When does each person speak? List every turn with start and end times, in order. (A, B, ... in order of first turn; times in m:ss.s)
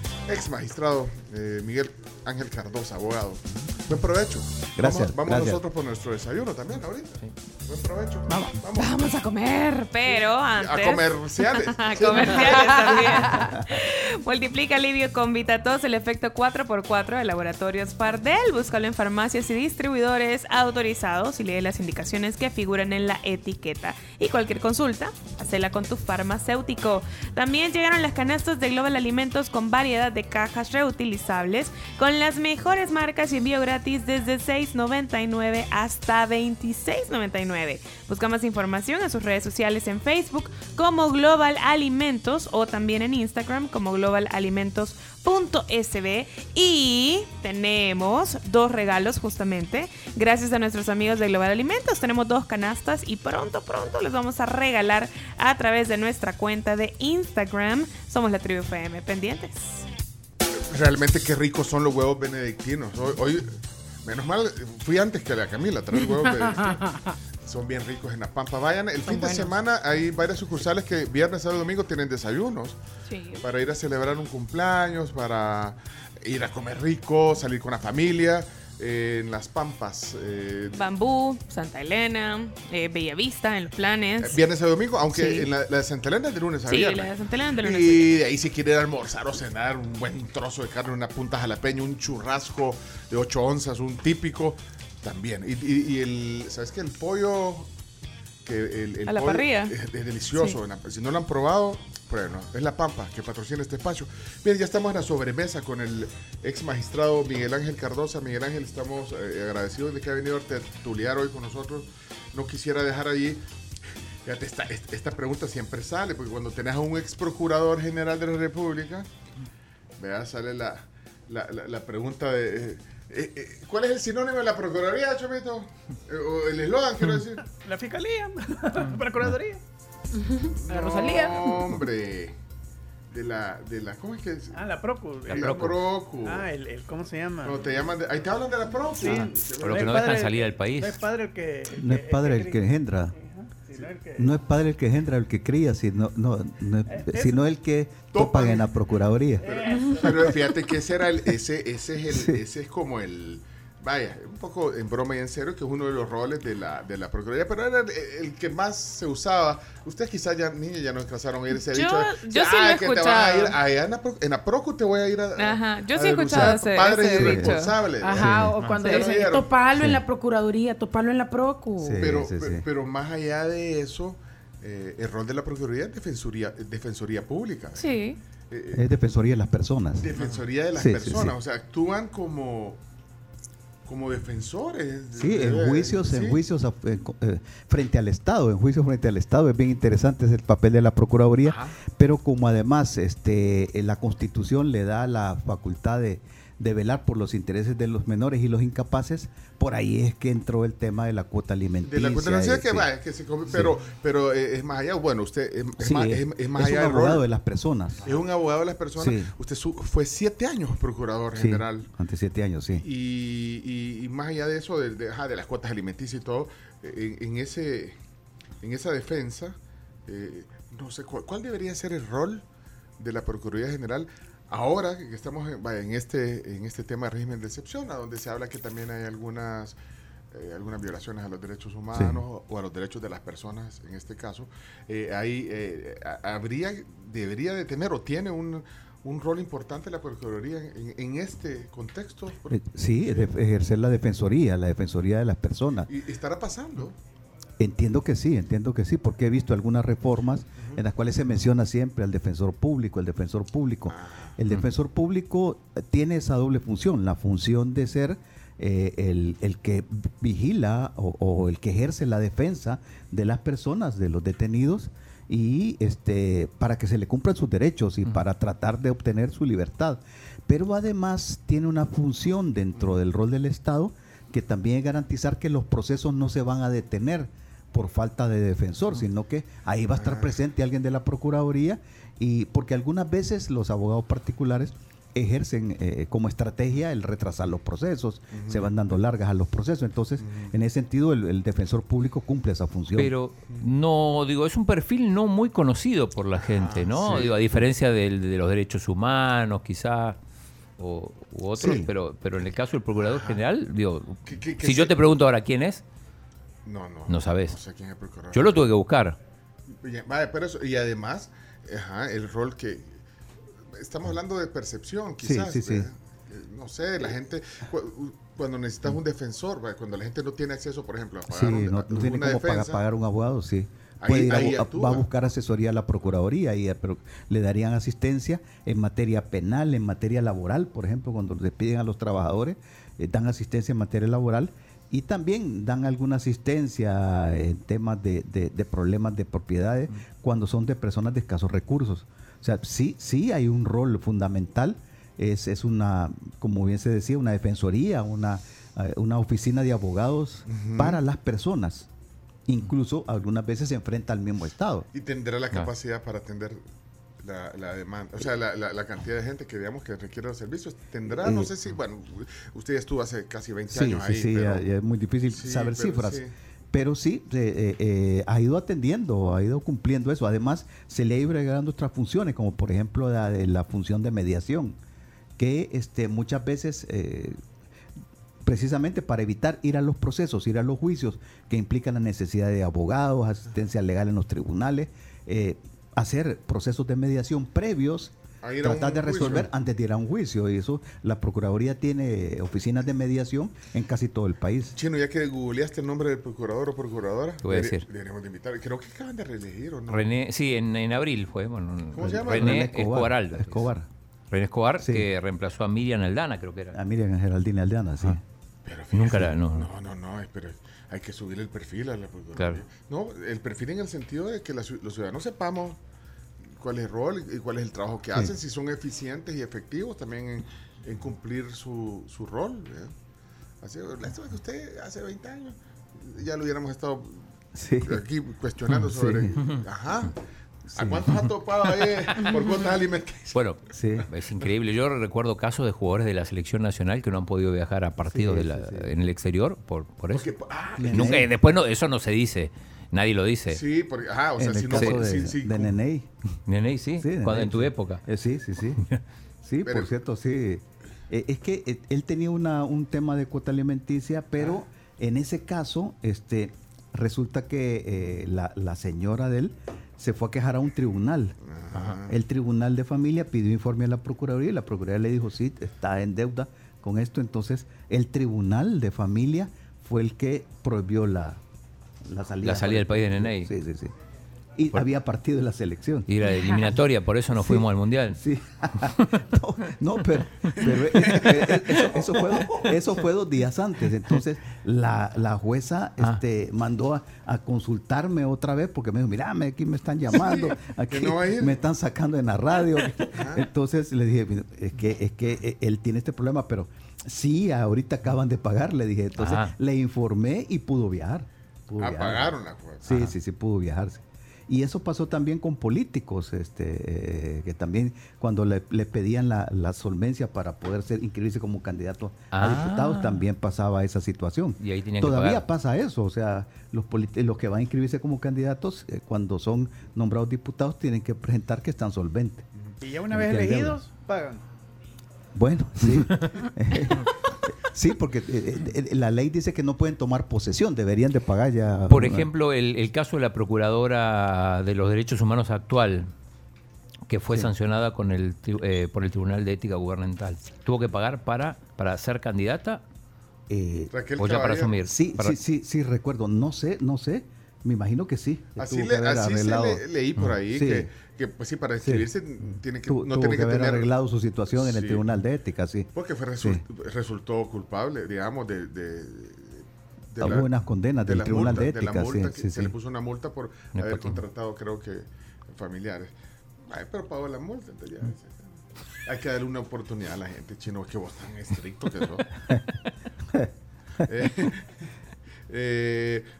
0:00.3-0:09.0 A
0:04.8-0:05.6 B
0:08.3-0:08.5 C
0:08.8-0:59.8 D
0:10.1-0:13.4 A
1:00.7-1:03.5 A
1:04.0-1:06.8 A
1:05.9-1:07.2 C
1:07.4-1:12.8 A
1:09.0-1:09.5 C
1:13.0-1:13.4 D
1:13.4-1:20.8 A
1:20.7-1:24.4 D
1:24.2-1:37.7 A
1:25.1-1:25.5 D
1:26.7-1:28.2 D
1:38.4-1:53.4 A
1:39.1-1:39.7 D
1:54.2-1:59.1 A
2:00.0-2:07.4 A
2:07.4-2:09.6 E
2:10.3-2:11.7 C
2:10.4-2:12.3 A
2:13.1-2:14.6 A
2:14.5-2:17.8 E
2:15.3-2:16.5 A
2:15.3-2:15.7 F
2:17.4-2:20.0 A
2:19.0-2:24.3 E
2:19.1-2:21.0 F
2:21.8-2:23.1 B
2:24.1-2:29.5 B
2:26.9-2:27.4 E
2:28.1-2:28.7 A
2:29.4-2:30.3 E
2:29.4-2:49.5 A
2:32.1-2:32.4 B
2:41.7-2:43.6 D
2:45.4-2:47.7 D
2:47.1-2:48.6 B
2:48.0-2:52.0 C
2:49.8-2:50.0 B
2:51.8-2:52.6 B
2:52.0-2:58.9 A
2:57.8-2:58.2 C
2:58.7-3:00.1 B
3:00.0-3:02.8 A
3:00.7-3:01.3 B
3:03.8-3:06.4 A
3:05.1-3:22.9 B
3:21.8-3:27.2 A
3:23.5-3:23.7 B
3:25.8-3:28.1 B
3:28.0-3:31.9 A
3:29.0-3:29.3 B
3:31.4-3:32.8 B
3:32.8-3:38.0 A
3:38.6-3:39.6 A
3:40.1-3:42.4 A
3:43.0-3:49.8 A
3:50.3-4:03.3 A
3:51.9-3:52.2 B
4:02.5-4:05.9 B
4:05.9-4:07.0 A
4:07.6-4:53.1 B
4:13.9-4:14.3 A
4:40.0-4:40.3 A
4:48.3-4:48.7 A
4:50.2-4:50.5 A
4:53.0-5:00.2 F
4:56.4-4:57.4 A
5:00.8-5:05.8 F
5:01.6-5:01.9 B
5:03.0-5:03.4 A
5:04.2-5:05.0 A
5:06.6-5:08.6 A
5:07.1-5:07.6 F
5:08.3-5:09.2 F
5:09.7-5:13.0 A
5:13.7-5:22.8 A
5:15.2-5:15.9 B
5:21.3-5:51.9 B
5:24.0-5:25.1 A
5:50.5-5:51.0 A
5:52.4-5:54.9 B
5:54.9-5:56.6 A
5:57.2-6:04.6 A
6:01.1-6:01.5 B
6:03.7-6:14.8 B
6:05.3-6:06.3 A
6:15.4-6:17.4 B
6:18.4-6:34.7 B
6:28.4-6:29.5 A
6:34.8-6:40.0 A
6:37.4-6:37.8 F
6:39.9-6:43.7 F
6:41.9-6:42.6 A
6:42.0-6:43.9 B
6:44.3-6:46.8 F
6:44.8-6:45.1 B
6:46.7-6:48.2 B
6:48.6-6:55.8 A
6:48.9-6:49.7 F
6:56.6-7:02.9 A
7:03.6-7:07.2 A
7:07.5-7:08.0 B
7:07.8-7:10.1 A
7:08.8-7:09.5 B
7:10.7-7:11.1 B
7:10.7-7:13.4 A
7:13.3-7:20.3 F
7:13.7-7:14.1 B
7:18.1-7:18.9 B
7:20.1-7:21.2 A
7:20.8-7:21.3 B
7:20.9-7:23.6 F
7:23.5-7:25.7 A
7:24.4-7:26.1 B
7:26.5-7:28.0 F
7:27.0-7:28.8 B
7:29.4-7:51.4 B
7:29.6-7:29.9 A
7:41.5-7:42.1 A
7:52.0-7:53.9 B
7:52.4-7:53.5 F
7:54.6-7:56.1 B
7:56.1-7:58.2 F
7:56.2-7:56.7 C
7:57.3-8:42.4 B
8:00.6-8:02.7 A
8:10.1-8:11.6 A
8:13.1-8:13.4 A
8:19.2-8:19.5 F
8:21.8-8:23.1 A
8:32.3-8:33.2 F
8:34.6-8:35.4 F
8:42.8-8:44.4 E
8:43.1-8:43.8 B
8:45.3-8:52.3 B
8:45.8-8:46.4 F
8:51.9-8:56.1 F
8:57.1-9:02.8 F
9:03.5-9:03.9 B
9:03.9-9:04.8 A
9:04.2-9:05.4 F
9:04.9-9:09.8 B
9:08.6-9:13.9 A
9:10.5-9:10.9 B
9:11.8-9:15.9 B
9:14.5-9:15.0 A
9:15.9-9:20.5 A
9:20.2-9:22.7 B
9:21.0-9:26.1 A
9:23.7-9:24.2 F
9:26.7-9:28.5 A
9:29.0-9:32.3 A
9:34.0-9:34.8 A
9:35.5-9:36.2 A